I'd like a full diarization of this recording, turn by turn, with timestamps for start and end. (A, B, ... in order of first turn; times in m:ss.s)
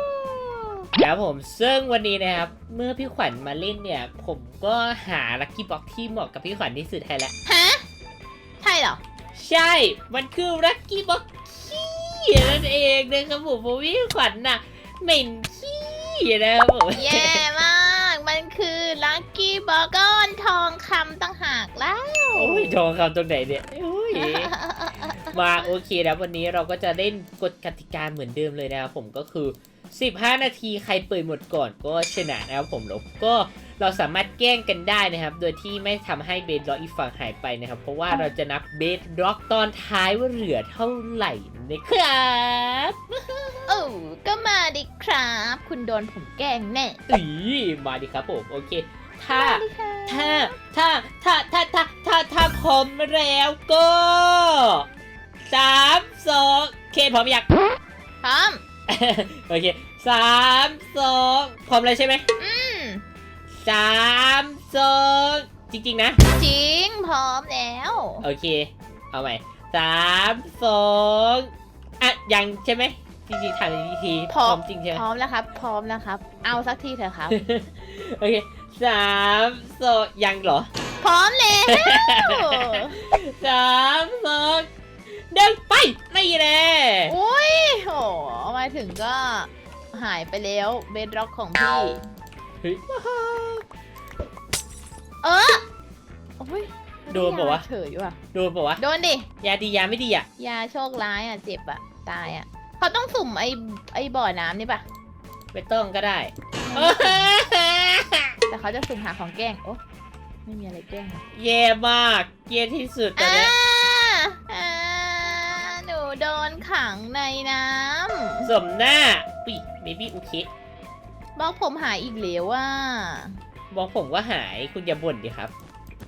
0:01.0-0:07.3 A
0:07.4-0:07.8 B
0:08.6-0:09.0 B
0:09.3-0:17.4 A
0:17.0-0:22.8 B
0:22.3-0:24.5 A
0:24.1-0:25.4 B
0:25.3-0:43.9 A
0:43.7-0:47.0 B
0:47.1-0:54.8 A
0:49.3-0:50.6 B
0:55.5-0:57.5 A
0:58.2-0:58.6 B
0:58.9-1:02.2 A
1:02.4-1:03.0 B
1:03.6-1:06.2 A
1:06.3-1:08.2 B
1:08.2-1:15.0 A
1:14.3-1:17.4 B
1:17.3-1:20.7 A
1:21.0-1:23.0 B
1:21.7-1:27.1 A
1:27.1-1:32.0 B
1:32.6-1:33.6 A
1:35.2-1:35.6 B
1:36.4-1:38.2 B
1:37.1-1:37.6 A
1:38.3-1:38.8 A
1:38.8-1:39.3 B
1:39.4-1:40.2 A
1:40.4-1:44.8 B
1:45.5-1:48.4 A
1:46.6-1:47.3 B
1:48.5-1:49.8 B
1:50.4-1:51.2 B
1:51.3-1:53.5 A
1:53.2-1:58.5 B
1:58.4-2:00.5 A
2:01.4-2:03.4 B
2:03.7-2:05.5 A